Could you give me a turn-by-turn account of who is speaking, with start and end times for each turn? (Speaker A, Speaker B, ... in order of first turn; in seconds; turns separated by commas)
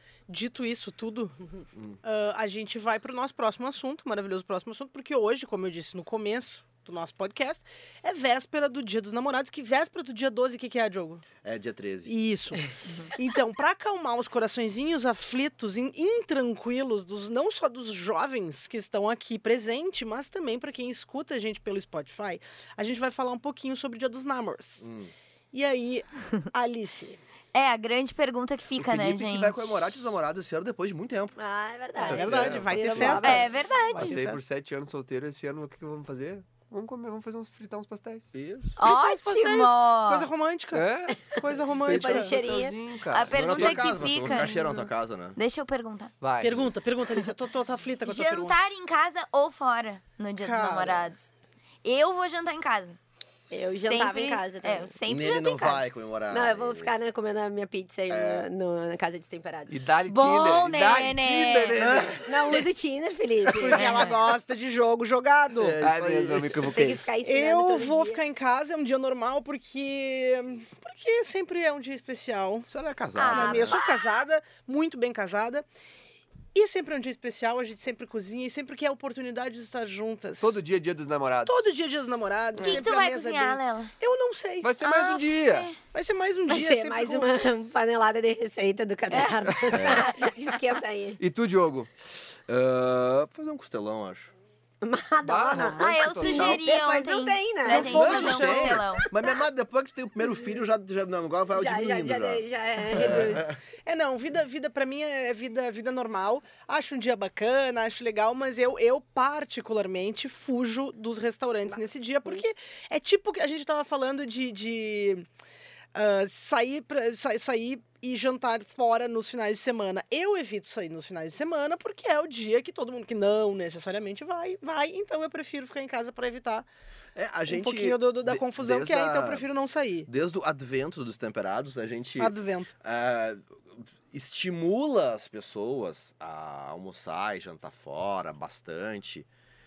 Speaker A: 0.3-1.4, Speaker A: 2.0-11.2, Speaker B: 11.4-12.1, Speaker A: 12.1-24.8, Speaker B: 24.8-25.1, Speaker A: 25.5-27.2, Speaker C: 27.5-29.7, Speaker B: 28.8-31.4, Speaker D: 31.4-33.8, Speaker A: 32.0-34.4, Speaker E: 32.1-38.4, Speaker C: 33.2-34.2, Speaker B: 38.3-38.8, Speaker C: 38.8-40.3, Speaker A: 38.8-42.4, Speaker E: 40.7-41.2, Speaker E: 41.8-44.2, Speaker D: 41.9-42.8, Speaker C: 43.1-46.1, Speaker B: 43.3-45.4, Speaker E: 46.2-46.7, Speaker A: 46.4-48.5, Speaker C: 48.0-51.3, Speaker A: 50.4-51.1, Speaker C: 51.8-53.0, Speaker D: 53.5-54.9, Speaker C: 53.7-55.8, Speaker B: 55.0-57.0, Speaker D: 56.3-59.9, Speaker B: 58.1-58.5, Speaker E: 59.7-62.1, Speaker C: 60.1-61.9, Speaker B: 61.7-62.7, Speaker D: 62.1-63.9, Speaker A: 63.5-65.8, Speaker C: 63.7-64.1, Speaker B: 65.5-66.7, Speaker E: 65.8-67.0, Speaker D: 66.6-68.2, Speaker A: 67.2-72.7, Speaker B: 72.7-73.8, Speaker C: 73.2-73.8, Speaker A: 73.2-75.6, Speaker A: 76.5-80.5, Speaker E: 80.4-81.6, Speaker A: 81.4-84.7, Speaker C: 82.6-83.9, Speaker E: 84.6-85.7, Speaker C: 84.8-85.8, Speaker A: 85.9-87.3, Speaker D: 86.5-91.2, Speaker E: 89.5-89.8, Speaker B: 89.7-90.1, Speaker E: 91.2-91.9, Speaker B: 92.5-94.3, Speaker D: 94.8-99.4, Speaker E: 95.2-96.6, Speaker C: 95.8-99.1, Speaker A: 97.7-98.8, Speaker B: 97.7-103.6, Speaker D: 101.5-103.5, Speaker A: 103.8-115.2, Speaker A: 115.9-126.7, Speaker B: 127.2-129.4, Speaker A: 127.5-130.1, Speaker B: 130.1-139.3, Speaker A: 132.2-132.7